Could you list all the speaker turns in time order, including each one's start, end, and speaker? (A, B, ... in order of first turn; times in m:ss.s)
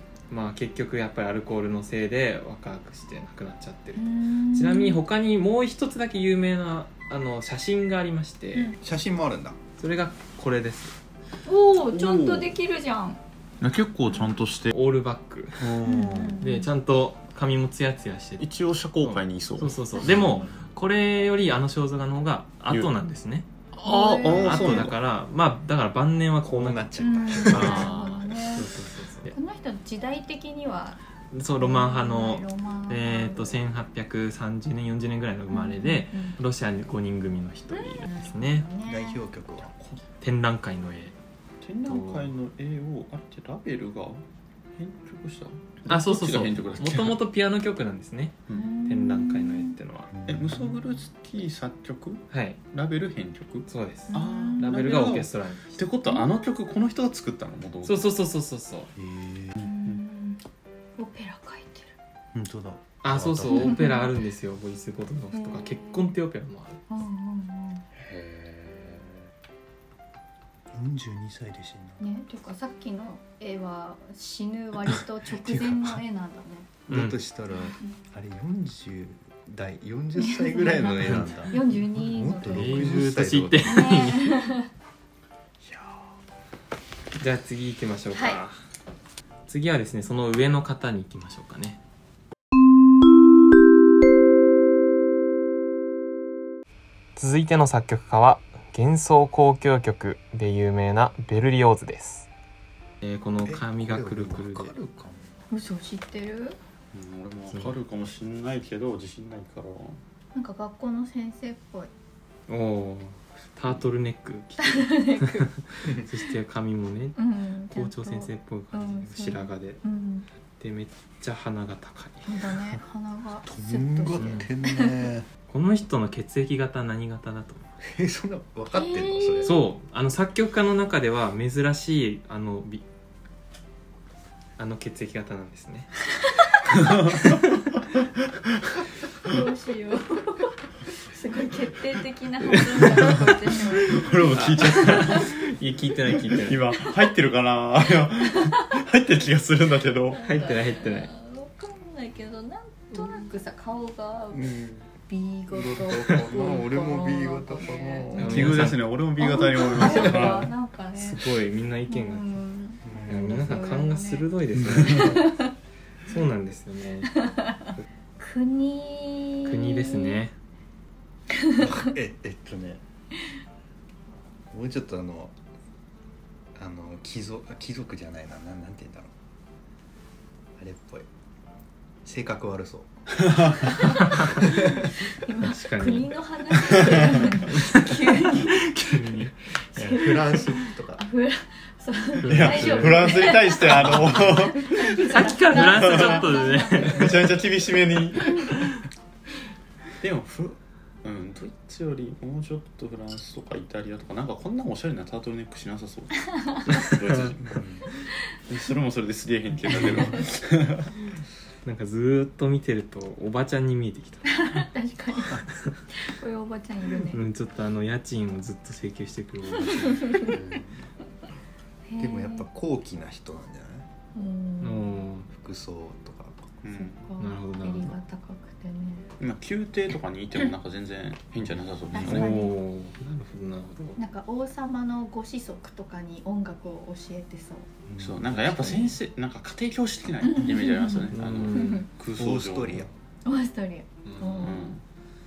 0:00.3-0:08.7 A
0:04.0-0:05.0 B
0:08.8-0:09.6 C
0:09.8-0:11.0 A
0:11.4-0:13.2 B
0:12.0-0:12.5 C
0:13.6-0:14.7 D
0:14.7-0:15.8 A
0:15.6-0:16.4 C
0:15.8-0:16.7 B
0:16.4-0:18.4 A
0:18.4-0:20.4 D
0:19.0-0:23.5 A
0:23.7-0:25.0 D
0:23.8-0:24.9 B
0:24.4-0:28.0 A
0:26.4-0:27.9 C
0:27.0-0:28.7 B
0:27.5-0:28.3 D
0:28.5-0:29.3 A
0:29.3-0:31.0 B
0:31.3-0:38.7 A
0:31.6-0:33.6 B
0:35.5-0:36.4 B
0:37.7-0:39.2 B
0:38.8-0:39.7 C
0:39.7-0:40.0 D
0:40.2-0:41.1 A
0:41.6-0:44.2 D
0:41.8-0:42.3 A
0:44.8-0:47.2 D
0:45.9-0:50.1 A
0:48.5-0:49.8 B
0:50.1-0:50.8 C
0:50.2-0:58.0 D
0:52.3-0:52.6 A
0:53.7-0:55.8 A
0:54.1-0:54.8 B
0:57.8-0:58.9 A
0:59.0-0:59.6 C
0:59.6-1:00.0 D
0:59.6-1:00.4 B
1:01.0-1:01.9 B
1:02.3-1:03.8 C
1:03.0-1:06.8 A
1:03.5-1:04.2 B
1:05.3-1:06.1 B
1:06.9-1:07.8 B
1:08.0-1:09.2 D
1:10.7-1:12.0 C
1:12.0-1:16.7 B
1:15.3-1:16.0 C
1:16.9-1:23.8 C
1:16.9-1:17.2 A
1:17.6-1:18.0 B
1:20.2-1:23.0 B
1:21.0-1:21.6 A
1:22.4-1:24.3 A
1:23.6-1:24.7 B
1:25.6-1:26.0 C
1:27.2-1:28.5 A
1:28.1-1:28.4 B
1:29.5-1:31.8 A
1:37.2-1:42.3 A
1:43.0-1:44.7 A
1:43.4-1:45.3 C
1:45.5-1:46.6 B
1:46.9-1:50.0 D
1:50.3-1:51.9 B
1:52.5-1:57.2 A
1:54.6-1:55.5 B
1:57.2-2:00.3 B
1:57.7-1:59.8 A
2:00.6-2:02.8 A
2:02.2-2:05.0 B
2:03.4-2:05.3 C
2:04.2-2:04.5 A
2:05.5-2:07.7 A
2:07.8-2:09.6 C
2:08.7-2:09.6 B
2:09.4-2:12.8 A
2:14.6-2:15.9 A
2:16.8-2:17.1 D
2:17.1-2:17.6 A
2:19.2-2:25.3 B
2:22.5-2:23.2 A
2:23.8-2:25.4 D
2:24.3-2:26.6 A
2:26.3-2:30.2 D
2:28.2-2:28.6 B
2:30.1-2:34.5 B
2:30.2-2:31.1 A
2:34.3-2:34.9 C
2:35.1-2:38.6 B
2:35.5-2:38.6 C
2:38.1-2:38.8 A
2:38.2-2:40.5 D
2:39.2-2:41.2 B
2:40.0-2:40.2 A
2:40.9-2:42.4 A
2:41.9-2:45.5 B
2:42.8-2:43.7 C
2:43.1-2:45.4 A
2:46.1-2:47.1 A
2:47.1-2:50.2 B
2:49.4-2:50.3 A
2:51.3-2:51.7 B
2:51.6-2:52.8 C
2:54.5-2:55.3 C
2:56.6-2:59.1 C
3:00.6-3:01.1 C
3:02.0-3:02.9 C
3:03.1-3:03.7 D
3:03.7-3:08.6 B
3:04.0-3:04.3 A
3:04.2-3:04.9 C
3:05.4-3:06.1 A
3:06.7-3:07.2 D
3:07.5-3:08.0 A
3:08.6-3:10.3 A
3:09.7-3:17.5 B
3:09.9-3:11.0 D
3:12.2-3:14.3 A
3:12.2-3:15.1 D
3:14.9-3:17.3 A
3:15.6-3:16.3 D
3:16.8-3:18.6 D
3:18.2-3:18.5 B
3:20.0-3:27.6 D
3:26.3-3:26.6 B
3:26.8-3:27.3 A
3:27.1-3:27.8 C
3:28.5-3:31.0 D
3:31.6-3:34.6 A
3:34.3-3:37.2 B
3:35.3-3:35.7 A
3:37.1-3:40.3 A
3:39.7-3:40.4 B
3:40.2-3:40.9 C
3:41.9-3:42.5 B
3:42.0-3:43.9 C
3:44.1-3:45.0 B
3:44.6-3:45.3 A
3:45.3-3:46.6 C
3:46.6-3:47.0 D
3:46.7-3:49.1 B
3:47.2-3:47.9 A
3:49.2-3:52.3 D
3:51.9-3:52.6 B
3:52.0-3:54.0 A
3:54.0-3:57.7 B
3:57.9-3:58.9 C
3:58.0-4:02.9 D
4:00.2-4:01.9 B
4:01.1-4:01.9 A
4:02.2-4:02.9 C
4:03.2-4:04.7 B
4:04.0-4:04.6 A
4:04.4-4:04.8 D